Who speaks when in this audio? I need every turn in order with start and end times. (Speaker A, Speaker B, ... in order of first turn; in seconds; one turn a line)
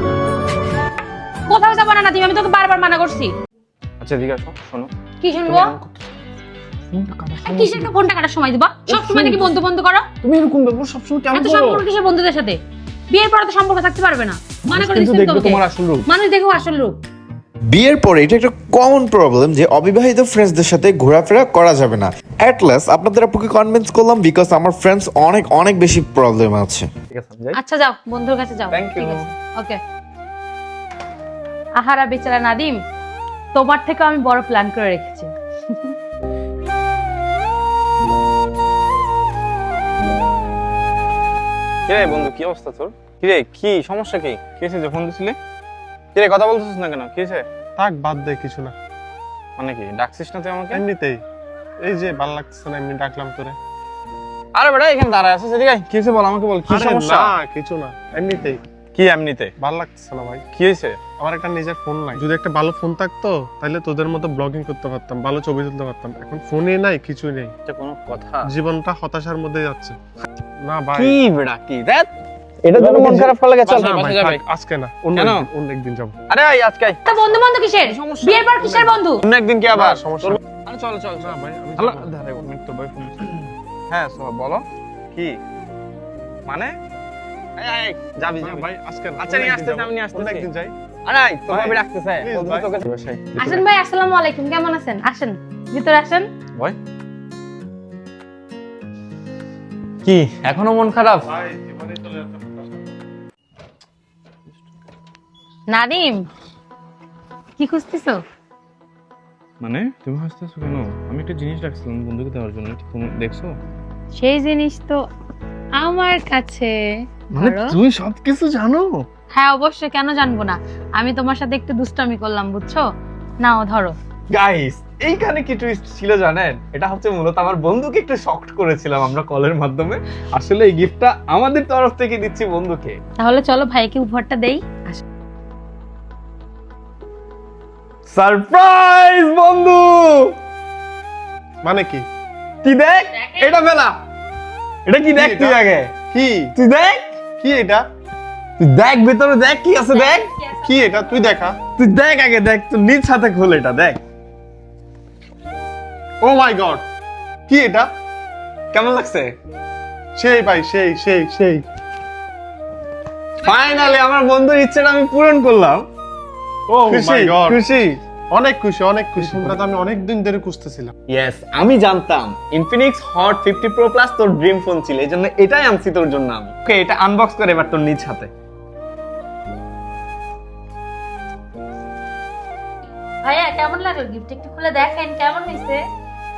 Speaker A: 1.5-3.3
Speaker B: 4.0-4.9
Speaker A: 5.2-5.7
Speaker B: 5.5-6.0
Speaker B: 6.9-7.9
Speaker A: 7.4-10.1
Speaker B: 8.9-9.5
Speaker B: 10.2-11.8
Speaker A: 11.3-12.6
Speaker A: 13.1-17.0
Speaker B: 14.7-16.1
Speaker C: 17.7-26.9
Speaker B: 27.1-27.6
Speaker A: 27.6-29.8
Speaker B: 28.7-29.3
Speaker A: 31.8-32.8
Speaker A: 33.5-35.9
Speaker B: 41.9-45.4
Speaker B: 46.1-47.5
Speaker D: 47.8-48.8
Speaker B: 49.6-50.8
Speaker D: 50.7-51.2
Speaker D: 51.8-53.6
Speaker B: 54.5-57.4
Speaker D: 56.7-58.6
Speaker B: 58.9-59.5
Speaker D: 59.6-60.5
Speaker B: 60.5-61.0
Speaker D: 61.2-67.5
Speaker B: 67.7-68.5
Speaker D: 68.5-70.0
Speaker D: 70.6-71.2
Speaker B: 70.9-72.1
Speaker B: 72.6-74.4
Speaker D: 73.0-76.2
Speaker B: 75.2-75.5
Speaker B: 76.3-84.6
Speaker A: 77.0-79.2
Speaker D: 79.7-80.4
Speaker D: 81.2-82.1
Speaker B: 86.5-86.7
Speaker B: 87.6-88.7
Speaker D: 88.4-90.7
Speaker B: 89.2-90.5
Speaker B: 91.1-93.6
Speaker D: 91.5-92.8
Speaker A: 93.4-96.3
Speaker B: 100.0-101.3
Speaker D: 101.3-102.7
Speaker A: 105.7-106.2
Speaker A: 107.6-108.2
Speaker B: 109.6-113.5
Speaker A: 114.2-115.1
Speaker A: 115.8-117.8
Speaker B: 117.4-119.0
Speaker A: 119.3-122.8
Speaker A: 123.4-124.0
Speaker B: 124.3-133.0
Speaker A: 133.2-135.0
Speaker B: 138.1-140.3
Speaker D: 141.6-142.1
Speaker B: 142.6-144.0
Speaker B: 144.9-145.9
Speaker D: 145.1-146.5
Speaker B: 146.6-147.1
Speaker D: 147.4-147.9
Speaker B: 148.6-150.3
Speaker A: 149.9-150.7
Speaker D: 150.6-151.6
Speaker B: 151.8-154.0
Speaker D: 156.2-156.8
Speaker D: 157.5-157.9
Speaker B: 158.7-159.3
Speaker D: 160.2-161.7
Speaker B: 163.4-165.8
Speaker D: 166.7-170.9
Speaker B: 166.8-167.8
Speaker B: 169.2-169.6
Speaker B: 171.1-178.3
Speaker A: 183.2-185.8